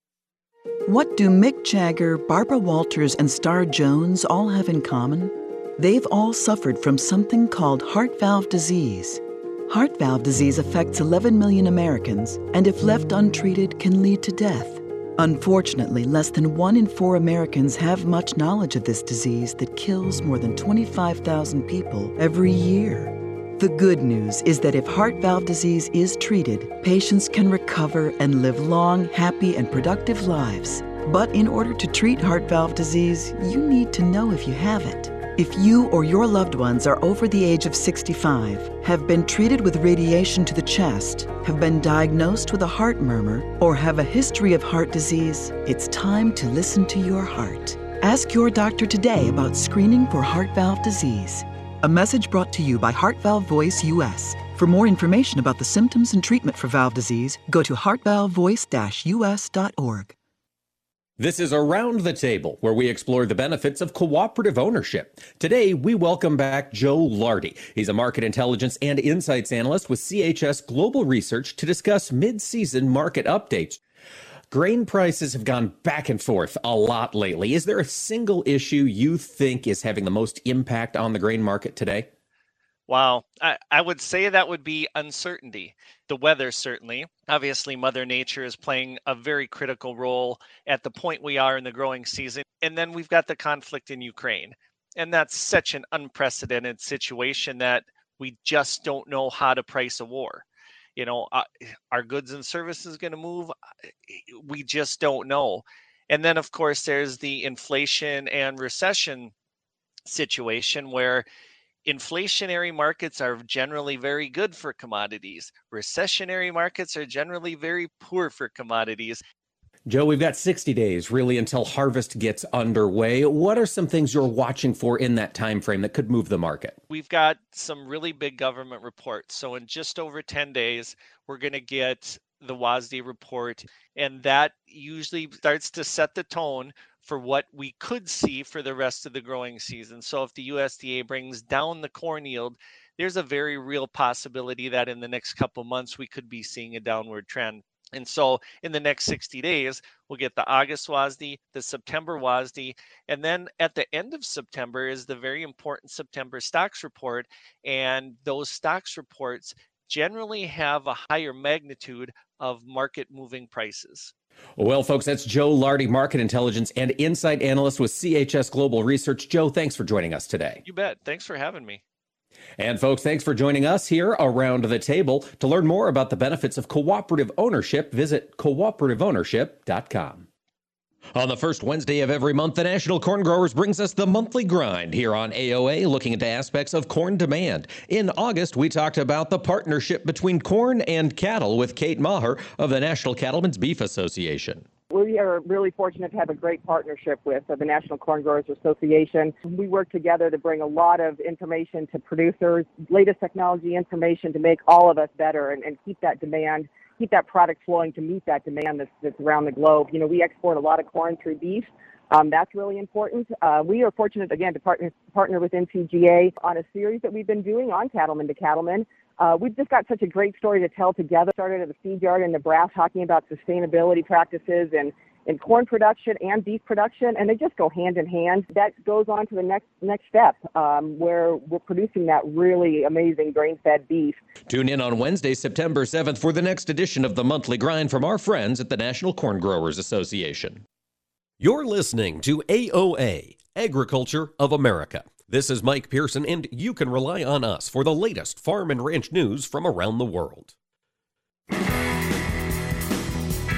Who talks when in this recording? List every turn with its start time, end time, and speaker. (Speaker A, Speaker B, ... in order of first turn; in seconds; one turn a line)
Speaker A: 0.8-60.1
Speaker B: 61.2-73.8
Speaker B: 74.5-82.1
Speaker C: 82.9-100.5
Speaker C: 101.0-103.5
Speaker C: 104.1-109.3
Speaker C: 110.1-111.3
Speaker C: 111.8-119.2
Speaker B: 119.9-126.8
Speaker C: 126.9-164.1
Speaker B: 164.6-170.6
Speaker C: 170.6-171.8
Speaker B: 172.6-180.2
Speaker B: 181.2-194.7
Speaker D: 194.9-234.2
Speaker B: 234.5-240.6
Speaker E: 241.4-250.5